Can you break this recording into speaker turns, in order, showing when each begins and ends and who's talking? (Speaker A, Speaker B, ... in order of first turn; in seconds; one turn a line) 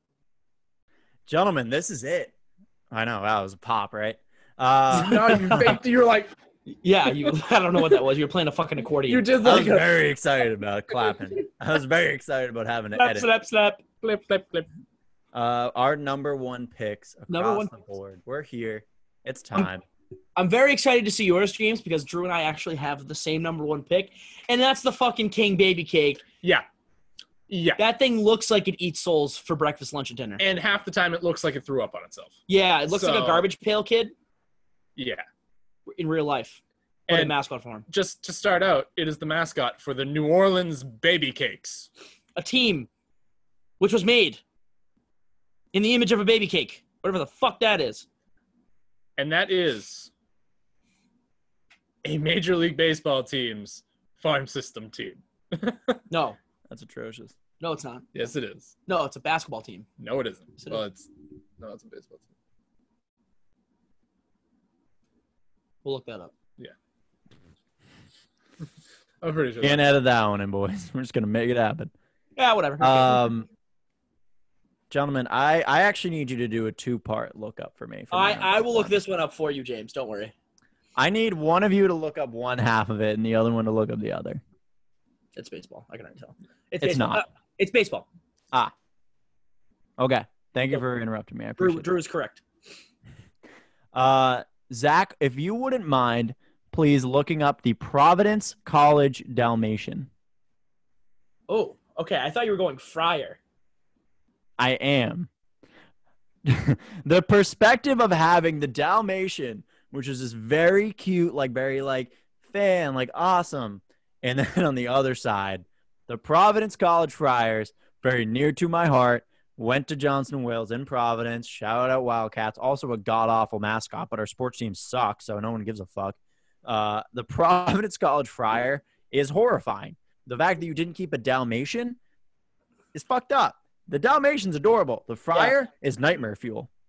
Speaker A: 1.3-2.3
Speaker A: 2.9-5.8
Speaker B: 4.9-6.3
Speaker C: 5.3-5.8
Speaker C: 6.7-9.7
Speaker B: 9.1-10.0
Speaker A: 9.4-13.3
Speaker B: 10.9-11.2
Speaker C: 12.9-13.8
Speaker B: 14.0-14.7
Speaker A: 15.3-19.8
Speaker C: 17.3-17.7
Speaker C: 20.4-26.2
Speaker B: 27.5-27.8
Speaker C: 27.8-30.4
Speaker B: 30.4-32.4
Speaker C: 32.5-34.1
Speaker B: 32.9-33.5
Speaker B: 35.0-35.2
Speaker C: 35.9-37.9
Speaker B: 37.1-37.4
Speaker B: 37.9-41.9
Speaker C: 42.4-42.9
Speaker C: 43.8-44.4
Speaker C: 45.7-48.0
Speaker B: 49.2-50.1
Speaker B: 52.0-56.0
Speaker C: 56.1-56.4
Speaker A: 56.7-57.3
Speaker C: 57.6-58.1
Speaker B: 58.1-58.7
Speaker C: 58.9-59.9
Speaker B: 60.0-62.3
Speaker C: 60.6-60.9
Speaker C: 65.8-66.3
Speaker B: 69.2-69.9
Speaker A: 69.6-71.9
Speaker C: 72.3-73.3
Speaker A: 72.8-73.5
Speaker A: 74.9-79.0
Speaker C: 78.1-80.3
Speaker A: 81.0-84.4
Speaker C: 85.3-88.1
Speaker A: 86.8-87.2
Speaker A: 90.0-91.9
Speaker C: 91.6-92.4
Speaker A: 93.9-100.1
Speaker C: 101.5-103.4
Speaker A: 104.6-105.3
Speaker A: 106.4-132.0
Speaker A: 132.9-136.7